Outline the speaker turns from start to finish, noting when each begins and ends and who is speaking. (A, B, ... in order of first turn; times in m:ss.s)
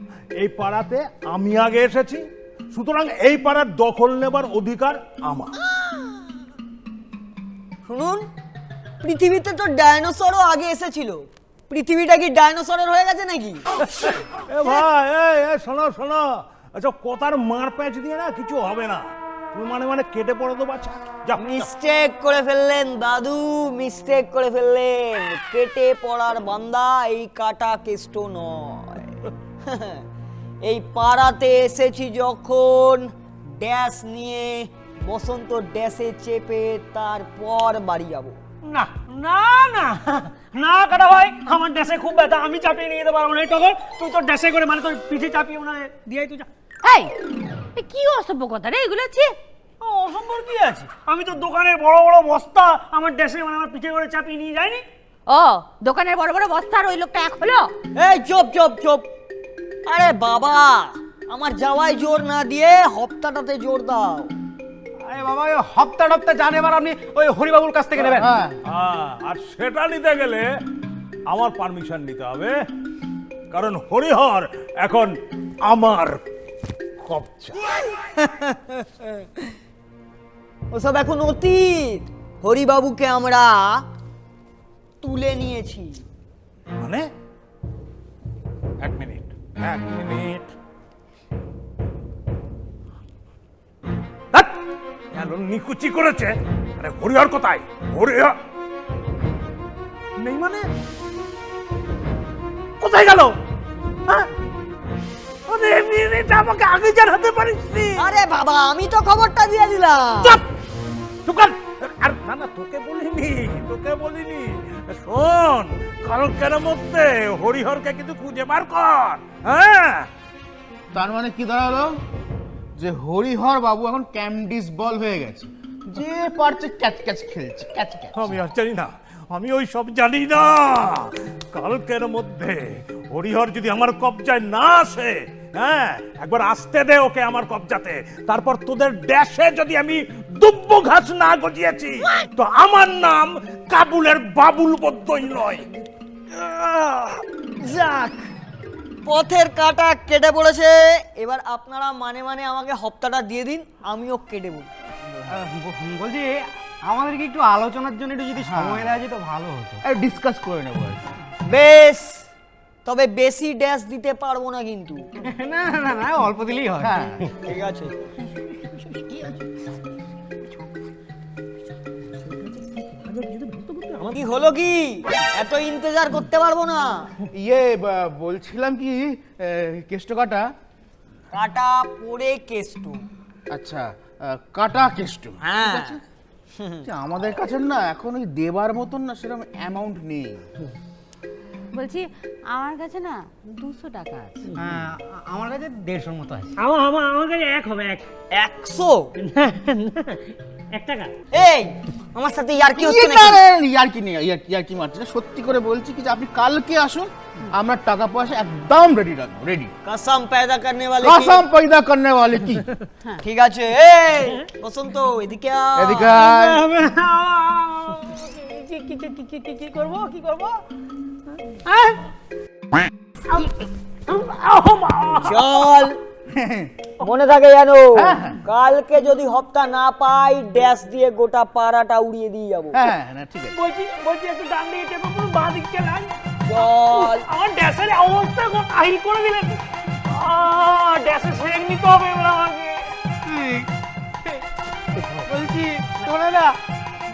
0:00.4-0:05.5 A
0:05.6-0:06.1 B
0:07.8-0:08.3 B
0:09.0-0:13.6 B
0:13.9-0:21.7 A
0:21.4-0:30.0 B
0:30.6-0:38.4 B
0:38.6-0:46.5 C
0:46.8-0:47.1 D
0:47.7-0:49.3 D
0:49.8-0:54.8 C
0:55.3-0:57.7 D
0:58.0-0:59.1 B
0:59.8-1:04.3 B
1:05.0-1:08.3 E
1:08.1-1:08.6 F
1:08.6-1:10.5 A
1:11.3-1:12.5 A
1:13.5-1:16.2 A
1:17.0-1:17.6 A
1:18.0-1:19.5 B
1:20.7-1:23.8 B
1:25.0-1:26.0 B
1:26.8-1:27.1 A
1:28.8-1:30.5 A
1:35.1-1:38.4 A
1:40.2-1:40.7 A
1:42.8-1:43.4 A
1:45.5-1:48.1 A
1:48.0-1:50.4 B
1:51.2-2:00.1 A
2:00.9-2:02.0 F
2:02.8-2:08.4 F
2:08.2-2:25.7 A
2:26.4-2:26.9 B
2:26.4-2:27.2 A
2:27.6-2:28.3 B
2:29.0-2:34.7 B
2:35.3-2:39.8 E
2:38.4-2:38.9 F
2:39.8-2:41.0 F
2:41.5-2:42.2 B
2:42.8-2:45.1 B
2:45.2-2:47.3 E
2:46.8-2:47.3 F
2:47.4-2:48.1 B
2:48.9-2:49.4 C
2:52.2-2:54.2 C
2:54.1-2:57.1 B
2:57.2-3:00.5 F
3:01.3-3:03.0 B
3:03.5-3:06.0 F
3:05.4-3:06.0 B
3:06.5-3:06.9 B
3:06.8-3:10.4 F
3:11.7-3:14.5 D
3:14.6-3:16.5 E
3:16.6-3:18.1 C
3:18.3-3:19.1 B
3:19.2-3:21.1 C
3:21.3-3:23.4 B
3:22.7-3:29.7 F
3:29.8-3:31.4 B
3:31.0-3:32.7 F
3:33.2-3:36.2 B
3:35.8-3:36.6 F
3:36.2-3:40.6 C
3:41.3-3:42.1 C
3:43.2-3:45.8 C
3:45.2-3:46.0 B
3:46.3-3:46.7 F
3:47.0-3:52.8 B
3:47.9-3:48.4 F
3:52.7-3:53.6 F
3:53.5-4:02.9 C
3:56.4-3:57.2 B
4:03.3-4:03.7 E
4:05.0-4:06.6 E